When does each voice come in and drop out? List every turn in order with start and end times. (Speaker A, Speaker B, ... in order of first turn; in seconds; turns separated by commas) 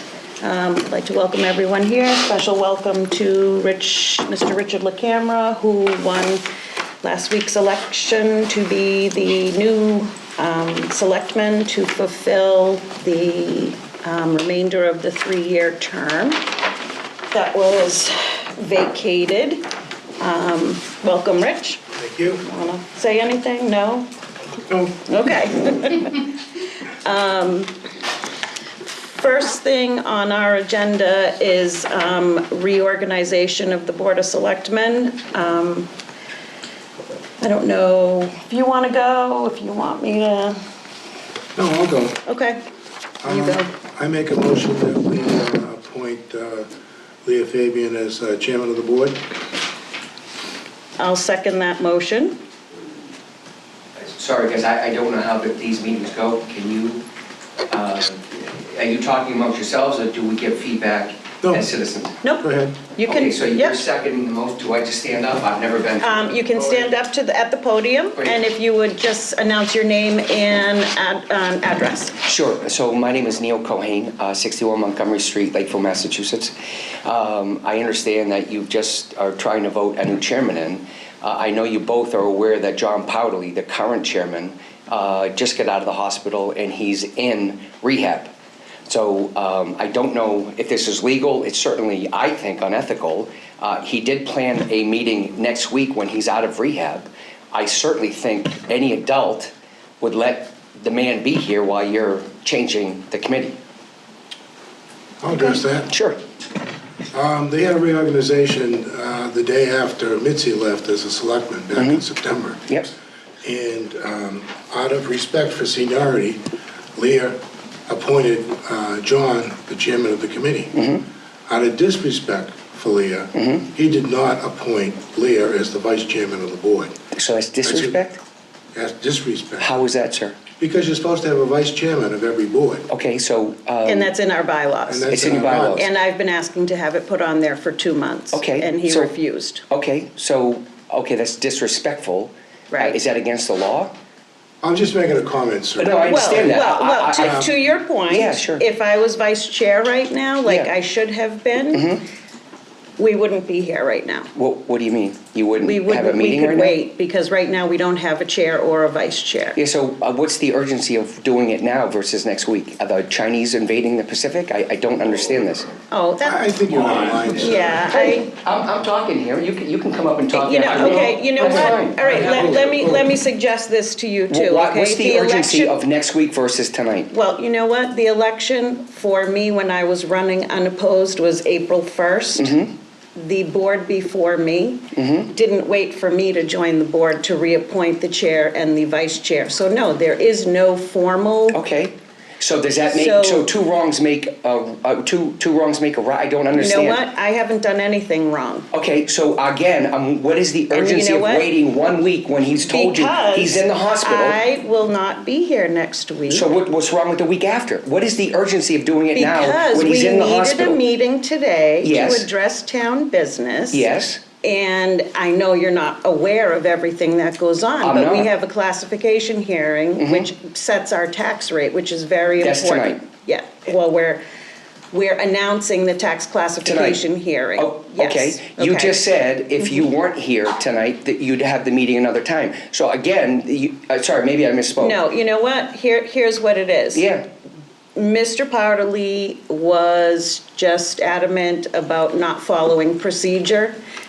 Speaker A: 0.4-6.4, Speaker A: 7.0-16.4, Speaker A: 17.3-19.6, Speaker A: 20.2-21.8, Speaker B: 21.9-22.4, Speaker A: 22.4-24.1, Speaker A: 25.0-26.3, Speaker A: 27.0-27.8, Speaker A: 29.1-35.9, Speaker A: 37.4-40.6, Speaker B: 41.5-42.2, Speaker A: 42.3-42.6, Speaker B: 43.2-46.7, Speaker A: 43.2-43.7, Speaker B: 47.2-49.2, Speaker A: 51.0-52.4, Speaker C: 54.0-57.0, Speaker C: 57.7-62.1, Speaker B: 62.4-62.8, Speaker A: 63.0-63.8, Speaker C: 63.1-66.9, Speaker A: 66.0-72.2, Speaker C: 72.2-88.3, Speaker C: 88.9-103.6, Speaker B: 105.2-105.9, Speaker C: 105.9-106.2, Speaker B: 107.1-112.6, Speaker C: 111.7-112.0, Speaker B: 113.4-116.4, Speaker B: 116.9-117.4, Speaker B: 117.9-120.7, Speaker C: 120.7-121.0, Speaker B: 121.5-126.9, Speaker C: 123.3-123.7, Speaker C: 127.1-128.2, Speaker B: 127.6-128.0, Speaker B: 128.7-129.8, Speaker C: 129.6-130.4, Speaker B: 130.6-132.8, Speaker C: 132.9-134.1, Speaker A: 133.8-135.2, Speaker B: 134.9-135.8, Speaker C: 135.1-135.9, Speaker A: 135.8-139.6, Speaker C: 138.3-139.1, Speaker C: 139.7-143.9, Speaker A: 142.7-143.0, Speaker B: 144.6-146.6, Speaker C: 145.8-147.5, Speaker A: 146.0-151.9, Speaker B: 147.2-147.5, Speaker C: 148.1-148.6, Speaker C: 151.7-152.0, Speaker A: 153.0-154.3, Speaker C: 154.3-156.8, Speaker A: 155.6-159.6, Speaker C: 159.6-165.7, Speaker A: 165.9-166.6, Speaker B: 166.2-168.0, Speaker C: 167.1-173.1, Speaker A: 167.3-168.3, Speaker A: 170.3-175.8, Speaker B: 172.1-172.5, Speaker C: 174.3-177.1, Speaker A: 177.1-182.6, Speaker C: 182.4-182.7, Speaker A: 183.2-191.6, Speaker C: 184.9-185.3, Speaker C: 191.5-197.1, Speaker A: 192.9-193.5, Speaker A: 196.5-198.7, Speaker C: 198.7-204.4, Speaker A: 200.7-201.5, Speaker A: 202.6-206.5, Speaker C: 206.3-210.8, Speaker A: 209.2-213.9, Speaker C: 211.8-212.3, Speaker C: 213.7-214.2, Speaker A: 214.4-224.2, Speaker C: 217.8-218.3, Speaker C: 220.0-220.3, Speaker C: 222.4-223.0, Speaker A: 224.9-229.0, Speaker C: 226.7-227.0, Speaker C: 227.6-235.0, Speaker A: 234.8-237.1, Speaker C: 236.9-237.2, Speaker A: 237.9-243.8